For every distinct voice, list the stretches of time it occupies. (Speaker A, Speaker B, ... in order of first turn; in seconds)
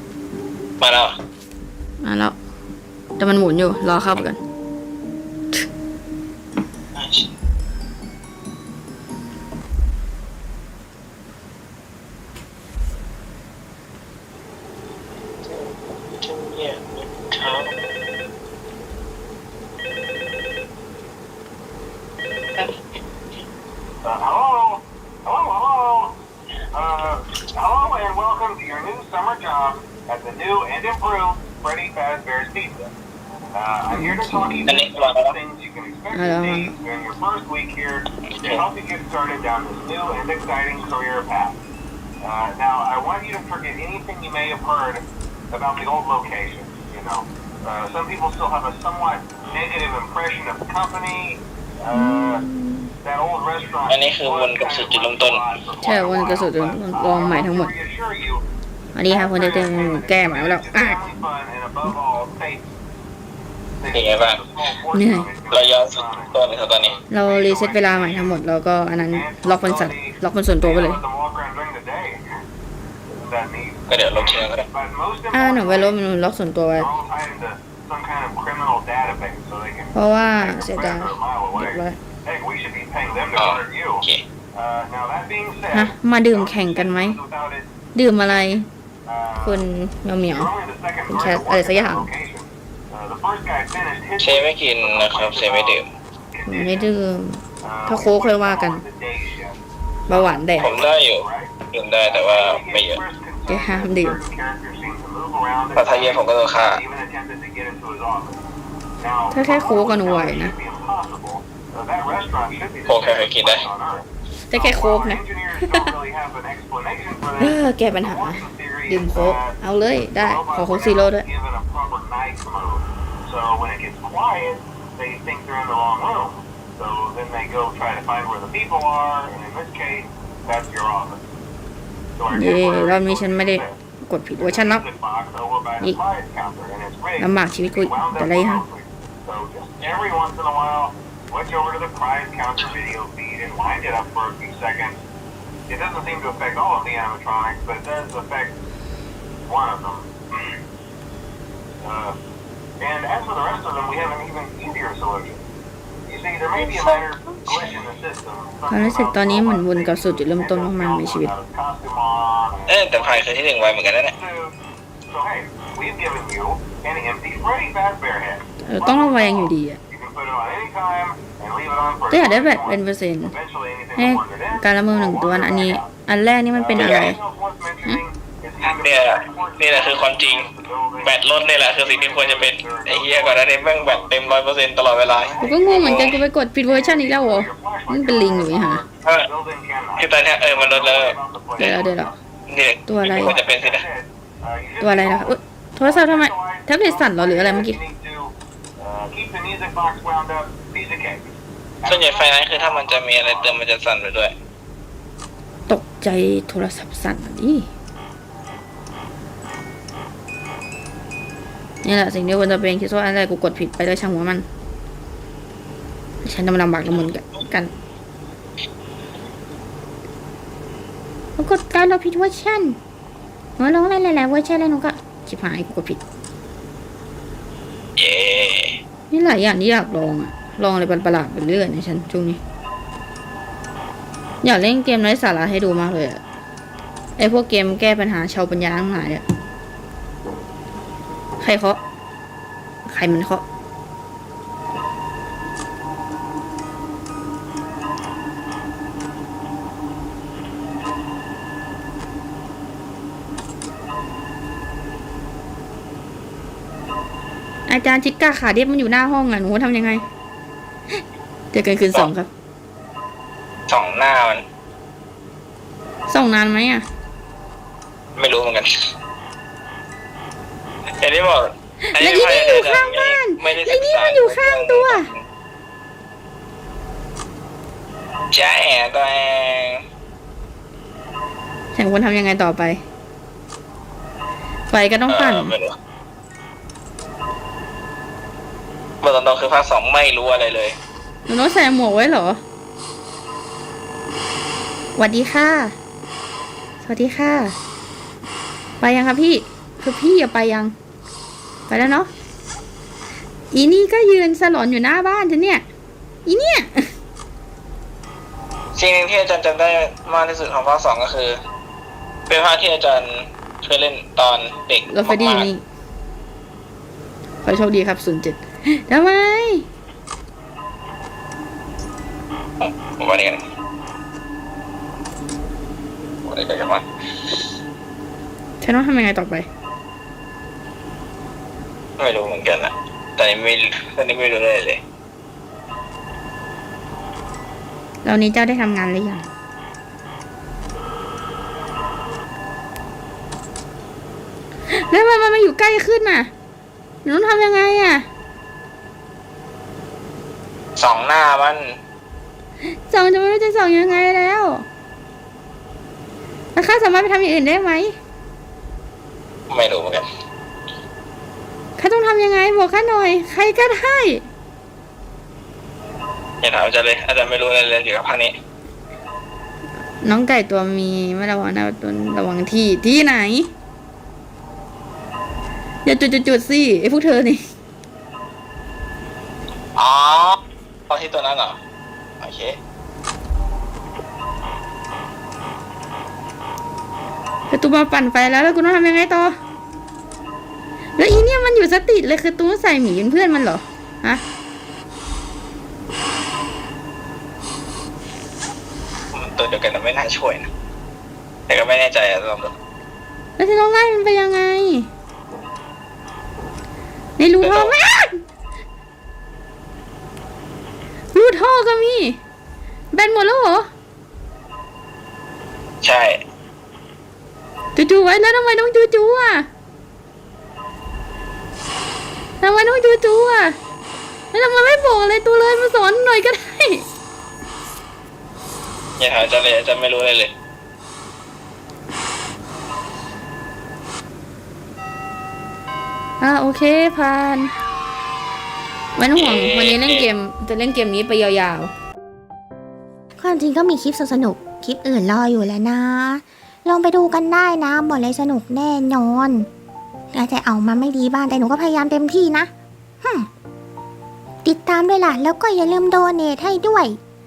Speaker A: 0.8-1.2, 6.9-7.3, 15.4-16.8, 17.3-17.7, 34.7-35.4, 38.3-38.6, 53.9-55.4, 63.9-64.4, 65.5-67.0, 73.9-74.7, 83.3-84.2, 94.2-95.9, 100.6-103.0, 105.7-106.8, 112.9-113.7, 162.7-164.1, 176.7-177.1, 178.6-180.5, 181.0-186.2, 190.0-191.7, 192.5-193.8, 201.8-204.3, 228.0-228.8, 263.7-264.4, 268.1-268.9, 271.0-275.3, 278.3-279.8, 285.1-285.8, 289.0-290.8, 308.7-311.4, 312.3-315.5, 322.6-323.4, 326.2-327.3, 332.0-334.8, 350.8-351.8, 359.5-360.1, 366.4-368.4, 379.7-381.6, 382.2-382.6, 399.1-400.5, 401.5-402.6, 407.4-407.8, 415.8-416.2, 429.0-430.3, 439.1-440.1
Speaker B: 2.0-2.4, 3.2-4.4, 33.9-34.7, 36.1-36.7, 51.9-52.9, 55.8-57.7, 58.9-61.0, 64.9-65.3, 67.1-71.0, 75.3-76.9, 79.9-82.0, 85.7-87.2, 87.9-88.7, 89.4-90.5, 91.1-92.1, 96.5-98.8, 100.1-100.8, 103.5-104.2, 109.3-110.5, 114.5-115.9, 117.4-121.2, 132.3-134.8, 137.2-138.6, 158.7-161.3, 168.6-169.8, 172.1-173.3, 173.9-177.2, 185.4-188.8, 191.6-192.1, 192.9-193.3, 194.8-197.8, 205.7-207.7, 211.8-214.4, 216.2-217.7, 221.4-222.8, 223.6-226.0, 229.1-232.4, 234.4-236.2, 237.2-239.2, 241.4-241.8, 242.8-243.4, 257.6-260.0, 261.5-262.3, 266.1-266.9, 271.9-275.1, 281.7-282.8, 284.7-285.5, 291.3-292.4, 294.9-295.8, 296.8-297.6, 298.8-300.7, 301.7-302.1, 303.5-305.6, 306.2-306.9, 314.9-315.6, 317.4-319.6, 328.6-329.5, 338.0-339.3, 344.7-346.3, 347.0-348.1, 352.9-354.6, 356.5-357.9, 361.8-364.2, 370.0-373.5, 375.8-377.4, 387.5-389.4, 391.0-394.2, 403.4-404.9, 407.2-408.2, 411.1-412.2, 412.9-413.7, 417.7-419.5, 422.4-423.6, 424.3-426.8, 436.2-437.5, 438.9-441.7
Speaker C: 24.0-26.2, 26.7-32.9, 33.5-41.6, 42.2-52.4, 53.0-58.4, 59.0-62.6, 63.8-68.4, 69.1-72.2, 73.2-76.0, 76.8-87.7, 89.0-89.7, 90.3-96.9, 97.6-99.6, 100.6-108.4, 109.0-131.2, 132.2-133.8, 134.4-145.0, 145.7-148.6, 149.5-150.5, 151.8-152.2, 152.8-155.4, 156.1-163.3, 164.0-164.5, 165.1-175.9, 176.5-181.2, 181.7-184.2, 185.1-192.2, 193.1-201.3, 201.8-203.6
Speaker D: 443.2-449.5, 450.1-452.5, 454.4-457.0